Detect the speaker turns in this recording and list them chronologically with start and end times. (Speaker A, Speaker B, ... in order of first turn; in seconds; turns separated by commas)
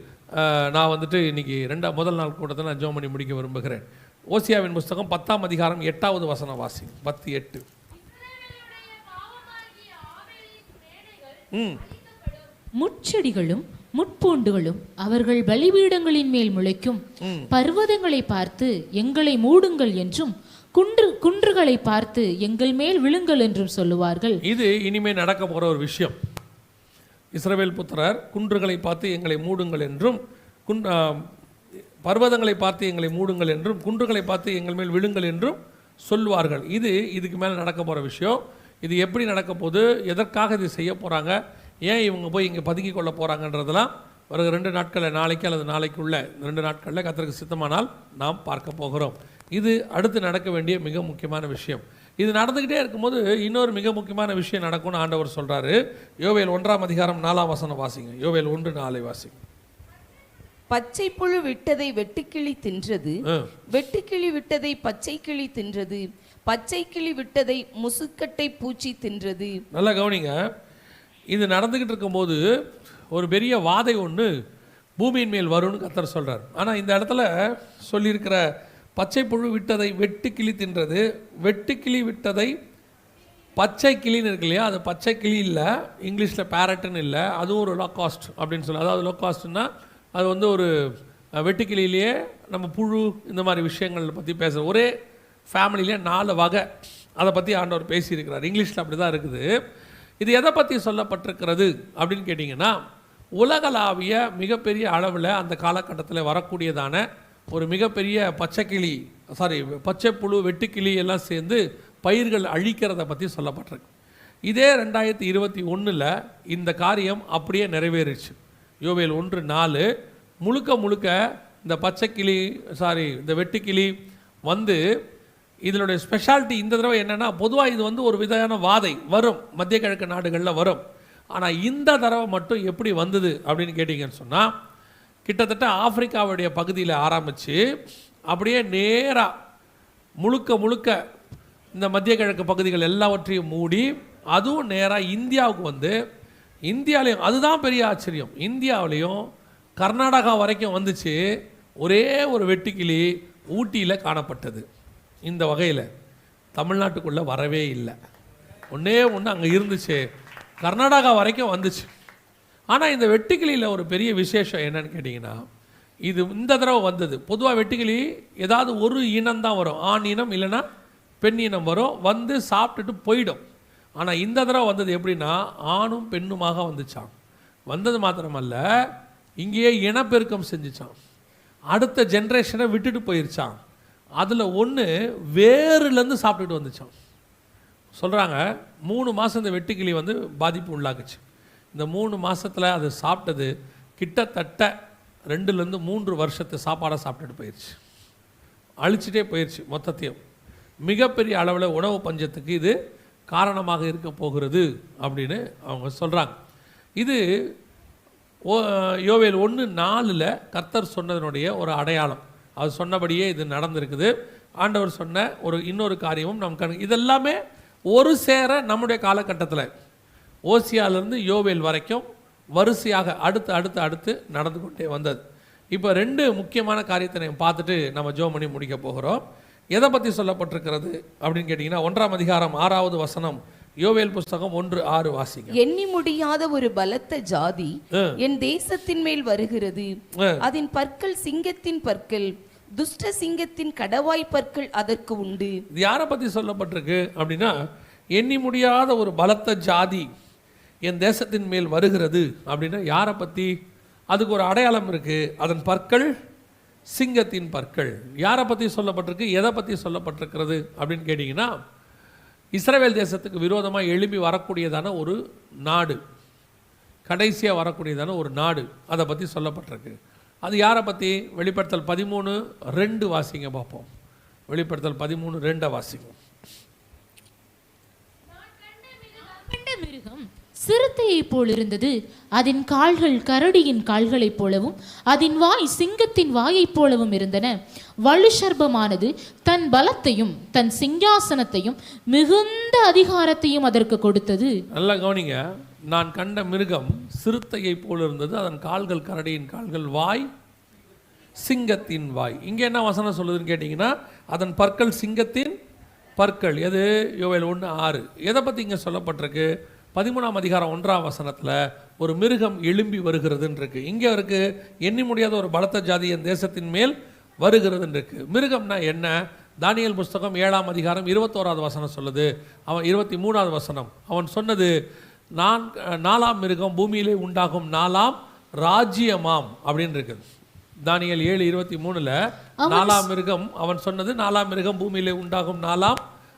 Speaker A: 0.4-7.7, Speaker B: 8.2-11.2, Speaker A: 11.5-11.8, Speaker B: 12.1-24.4, Speaker A: 17.2-17.5, Speaker A: 24.4-26.1, Speaker A: 27.3-31.3, Speaker A: 32.0-59.4, Speaker C: 60.7-63.1, Speaker C: 63.7-69.6, Speaker A: 69.7-70.3, Speaker A: 71.3-72.4, Speaker A: 73.1-74.3, Speaker A: 75.0-78.4, Speaker A: 79.0-82.5, Speaker A: 83.6-90.7, Speaker A: 91.4-94.9, Speaker A: 95.5-96.6, Speaker A: 97.2-99.5, Speaker A: 100.2-102.8, Speaker A: 103.4-113.9, Speaker A: 114.5-119.9, Speaker A: 120.4-123.9, Speaker A: 124.5-124.8, Speaker A: 125.7-130.8, Speaker A: 131.3-134.5, Speaker A: 135.3-137.6, Speaker A: 138.3-139.3, Speaker A: 140.2-141.0, Speaker A: 141.8-146.0, Speaker A: 146.7-149.2, Speaker A: 149.8-151.2, Speaker A: 151.8-154.7, Speaker A: 155.2-155.9, Speaker A: 156.6-158.0, Speaker A: 158.7-160.0, Speaker A: 160.6-161.9, Speaker A: 162.7-165.4, Speaker A: 166.1-170.6, Speaker A: 171.2-173.4, Speaker A: 174.0-177.1, Speaker A: 177.7-178.6, Speaker A: 179.4-180.9, Speaker A: 181.7-183.6, Speaker A: 184.2-186.9, Speaker A: 187.9-191.2, Speaker A: 191.7-194.7, Speaker A: 195.3-197.8, Speaker A: 198.8-200.2, Speaker A: 200.9-202.8, Speaker A: 203.3-206.3, Speaker A: 208.5-217.4, Speaker A: 217.9-219.7, Speaker A: 220.5-222.1, Speaker A: 222.6-225.2, Speaker A: 225.7-229.2, Speaker A: 229.7-235.6, Speaker C: 235.6-239.9, Speaker A: 237.9-238.2, Speaker C: 240.4-245.6, Speaker A: 245.7-247.5, Speaker A: 248.2-250.1, Speaker A: 250.9-253.5, Speaker A: 254.1-256.1, Speaker A: 256.9-261.5, Speaker A: 262.6-266.0, Speaker A: 267.1-273.9, Speaker A: 274.5-276.2, Speaker B: 278.5-287.5, Speaker B: 288.1-294.5, Speaker A: 294.7-300.3, Speaker A: 301.4-305.6, Speaker A: 306.2-324.7, Speaker A: 325.4-330.2, Speaker A: 330.8-336.0, Speaker B: 332.6-333.1